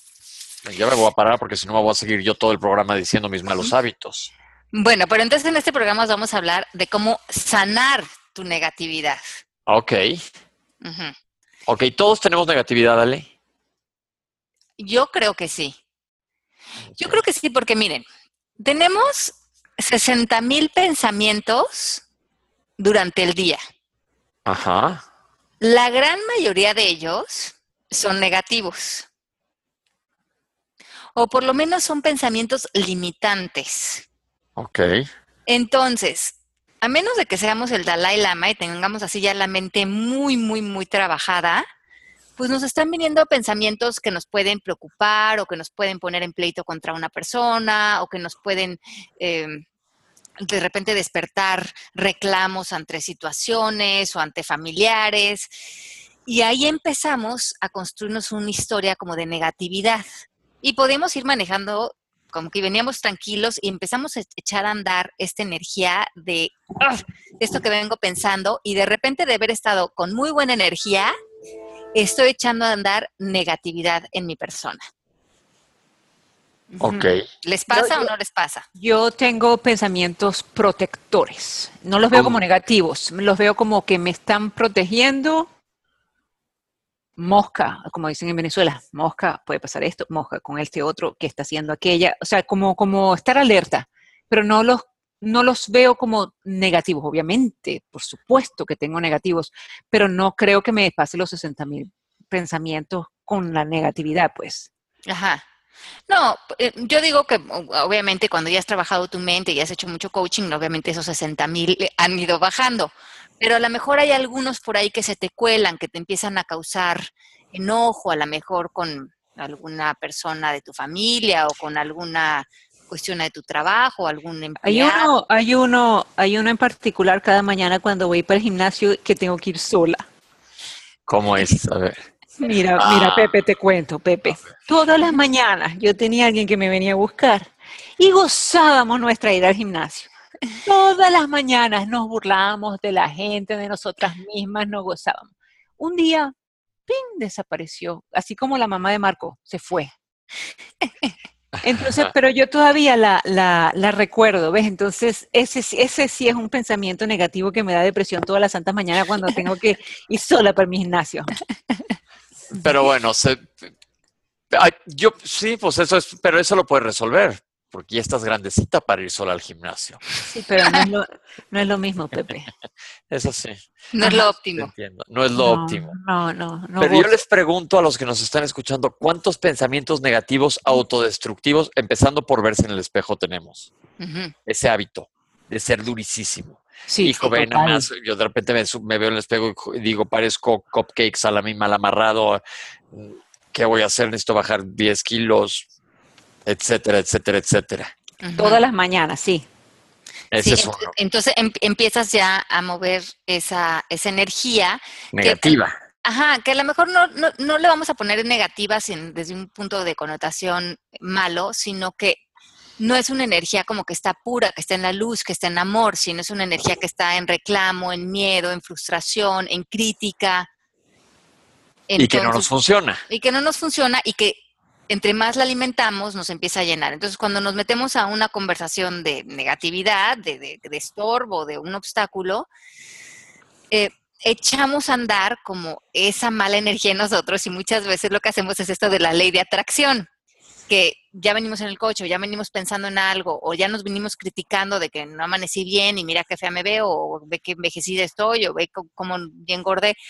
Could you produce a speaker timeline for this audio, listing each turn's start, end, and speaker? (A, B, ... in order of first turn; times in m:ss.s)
0:00.6-0:04.3 A
0:04.7-0:09.3 B
0:09.7-0:10.2 A
0:10.8-0:11.1 B
0:11.7-0:13.3 A
0:14.8-0:15.8 B
0:17.0-0:18.0 B
0:18.6-0:22.0 B
0:22.8-0:23.6 B
0:24.4-0:25.0 A
0:25.6-0:29.1 B
0:31.1-0:34.0 B
0:34.6-0:35.0 A
0:35.5-0:41.7 B
0:42.4-0:49.6 B
0:50.4-0:55.5 B
0:56.3-1:00.0 B
1:00.6-1:11.1 B
1:12.0-1:14.8 B
1:16.7-1:17.1 C
1:16.8-1:17.2 A
1:17.4-1:18.6 B
1:17.7-1:18.1 C
1:18.8-1:25.5 C
1:22.1-1:22.4 A
1:27.2-1:44.7 C
1:45.1-1:45.4 B
1:46.1-2:05.1 B
2:04.6-2:10.0 C
2:11.1-2:12.0 A
2:12.4-2:20.1 C
2:12.8-2:13.3 A
2:20.6-2:26.3 C
2:26.9-2:29.9 C
2:31.6-2:32.1 A
2:31.6-2:41.4 C
2:42.6-2:43.7 A
2:44.5-2:50.0 A
2:50.3-2:52.5 C
2:53.1-2:53.6 A
2:53.9-2:54.7 B
2:54.0-2:54.2 C
2:54.6-2:55.9 A
2:55.4-2:57.2 C
2:56.8-3:03.7 A
3:04.0-3:04.3 B
3:04.5-3:12.4 A
3:06.9-3:07.9 C
3:12.9-3:15.7 A
3:16.5-3:17.9 A
3:18.2-3:18.6 B
3:18.4-3:19.4 C
3:20.3-3:20.9 A
3:20.4-3:32.2 B
3:25.1-3:25.8 A
3:32.8-3:40.5 B
3:41.9-3:42.5 B
3:42.0-3:43.0 A
3:43.1-3:52.5 B
3:53.7-4:00.1 B
4:00.7-4:10.0 B